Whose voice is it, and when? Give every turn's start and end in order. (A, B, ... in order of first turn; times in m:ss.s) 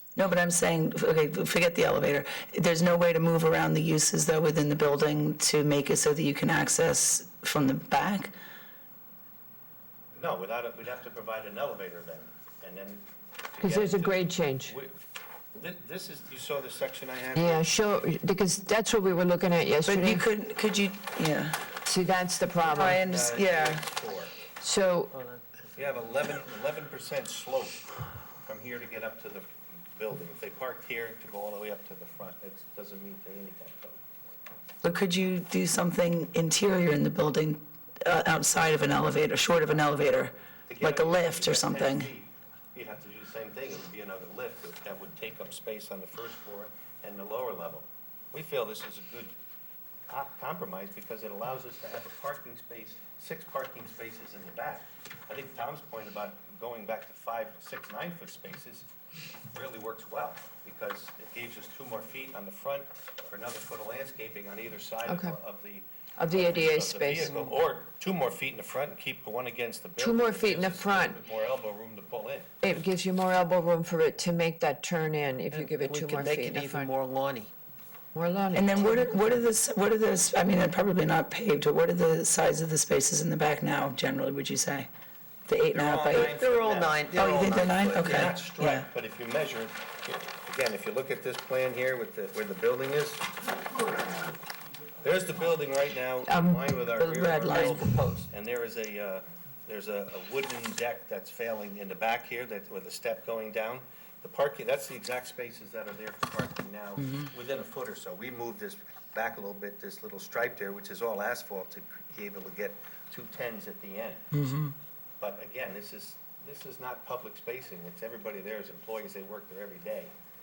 0:00.2-0:08.3 A
0:10.2-0:15.0 B
0:13.6-0:14.8 C
0:15.6-0:17.6 B
0:17.3-0:20.2 C
0:19.8-0:21.6 A
0:21.8-0:23.0 C
0:22.7-0:24.3 B
0:22.7-0:23.8 A
0:24.6-0:25.1 C
0:25.1-0:25.4 D
0:25.8-0:27.9 B
0:28.4-0:34.0 B
0:34.8-0:42.1 A
0:40.7-0:49.3 B
0:50.1-0:58.9 B
0:59.5-1:12.6 B
1:05.1-1:05.4 C
1:06.2-1:07.3 C
1:07.2-1:07.5 D
1:10.0-1:11.2 C
1:12.6-1:16.9 C
1:15.5-1:17.5 D
1:18.1-1:19.4 C
1:18.5-1:24.9 A
1:25.5-1:26.4 A
1:25.7-1:34.3 B
1:26.1-1:28.4 D
1:27.2-1:28.8 A
1:35.0-1:54.3 B
1:36.3-1:36.7 C
1:37.0-1:37.9 A
1:37.4-1:38.2 D
1:54.3-1:54.7 A
1:55.2-2:00.1 B